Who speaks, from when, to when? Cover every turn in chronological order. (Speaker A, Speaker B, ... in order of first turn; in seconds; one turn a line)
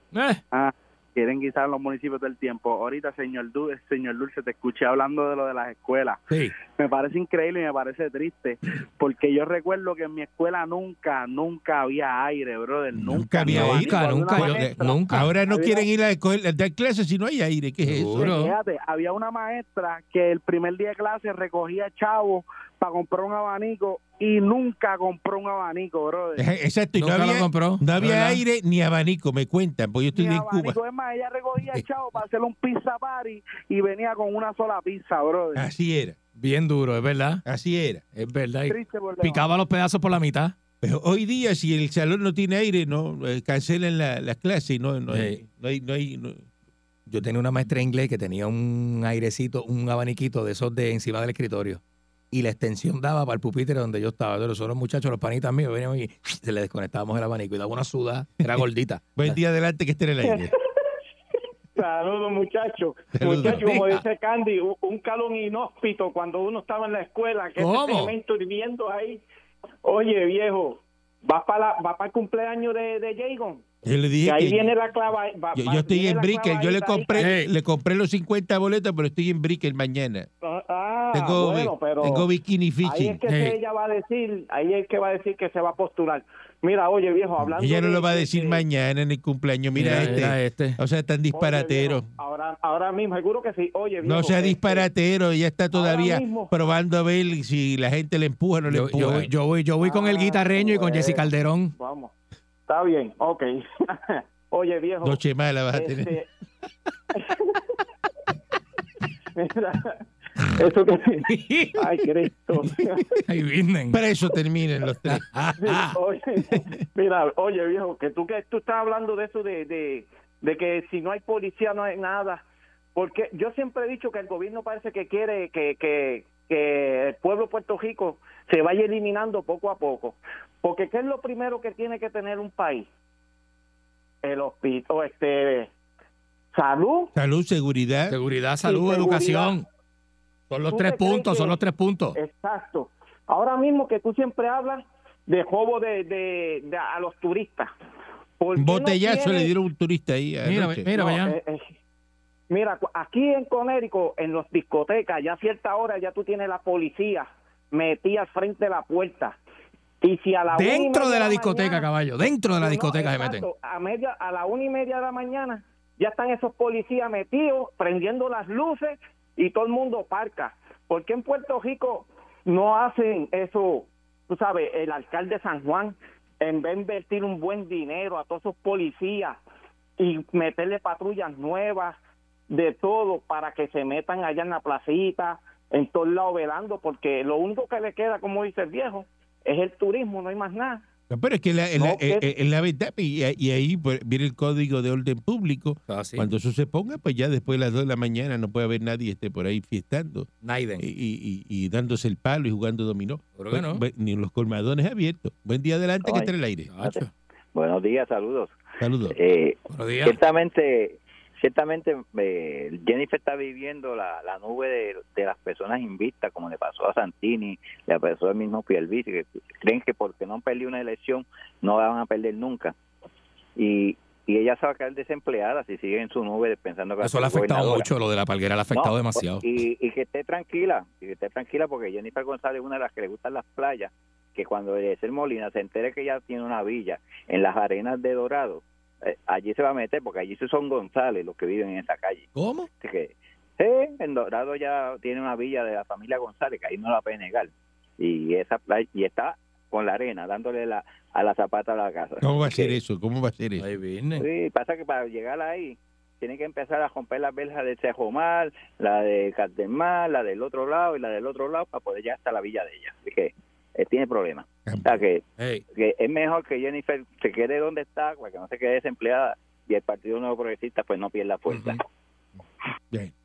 Speaker A: 0.1-0.4
Speaker B: 0.5-6.2
Speaker B: 6.7-15.9
Speaker C: 12.9-18.3
Speaker A: 13.4-15.3
Speaker A: 17.8-18.5
Speaker B: 18.2-26.4
Speaker C: 26.4-30.8
Speaker A: 27.0-28.4
Speaker B: 30.1-35.6
Speaker C: 35.5-36.1
Speaker A: 36.4-37.4
Speaker C: 37.5-38.0
Speaker A: 38.1-40.5
Speaker B: 38.7-39.4
Speaker C: 40.8-46.5
Speaker A: 45.1-45.4
Speaker A: 47.1-59.4
Speaker C: 59.1-60.5
Speaker D: 60.2-60.6
Speaker D: 61.8-69.2
Speaker C: 63.1-63.7
Speaker A: 63.3-64.0
Speaker A: 67.6-68.1
Speaker D: 69.8-73.6
Speaker C: 73.8-74.7
Speaker D: 74.2-77.4
Speaker C: 75.5-80.3
Speaker A: 77.2-77.5
Speaker D: 80.4-82.3
Speaker C: 81.1-83.2
Speaker D: 82.8-88.6
Speaker A: 83.2-83.6
Speaker C: 87.5-92.1
Speaker A: 89.7-90.8
Speaker D: 89.8-90.2
Speaker D: 91.3-94.8
Speaker C: 94.0-99.3
Speaker D: 95.7-96.5
Speaker A: 98.7-101.7
Speaker D: 99.8-102.1
Speaker D: 102.7-105.2
Speaker C: 105.0-106.1
Speaker D: 105.7-106.3
Speaker D: 107.1-107.6
Speaker D: 109.3-113.2
Speaker A: 111.3-112.0
Speaker A: 113.2-114.0
Speaker C: 113.9-115.8
Speaker A: 115.1-115.9
Speaker D: 115.6-122.4
Speaker C: 116.5-116.8
Speaker D: 122.9-132.9
Speaker D: 134.2-135.7
Speaker D: 136.5-137.1
Speaker C: 137.1-138.2
Speaker A: 138.1-139.7
Speaker D: 138.6-139.6
Speaker A: 140.5-142.2
Speaker D: 140.7-141.6
Speaker D: 142.1-147.7
Speaker D: 148.4-149.5
Speaker C: 148.6-150.9
Speaker A: 150.4-151.4
Speaker D: 150.9-151.7
Speaker D: 152.5-159.4
Speaker D: 160.0-161.9
Speaker A: 160.5-163.5
Speaker D: 162.6-179.4
Speaker D: 180.0-181.9
Speaker D: 182.5-190.8
Speaker C: 191.1-206.7
Speaker D: 191.8-192.2
Speaker A: 195.9-196.3
Speaker A: 200.4-200.8
Speaker A: 203.3-203.8
Speaker E: 206.0-208.6
Speaker A: 206.7-207.1
Speaker C: 208.8-209.2
Speaker E: 209.1-222.7
Speaker A: 209.7-210.2
Speaker E: 223.6-227.9
Speaker A: 227.0-229.4
Speaker E: 228.7-252.8
Speaker A: 242.3-242.7
Speaker C: 252.2-253.7
Speaker A: 253.6-254.3
Speaker E: 254.2-265.2
Speaker C: 264.7-265.0
Speaker A: 265.4-265.6
Speaker E: 265.7-271.8
Speaker A: 271.5-271.8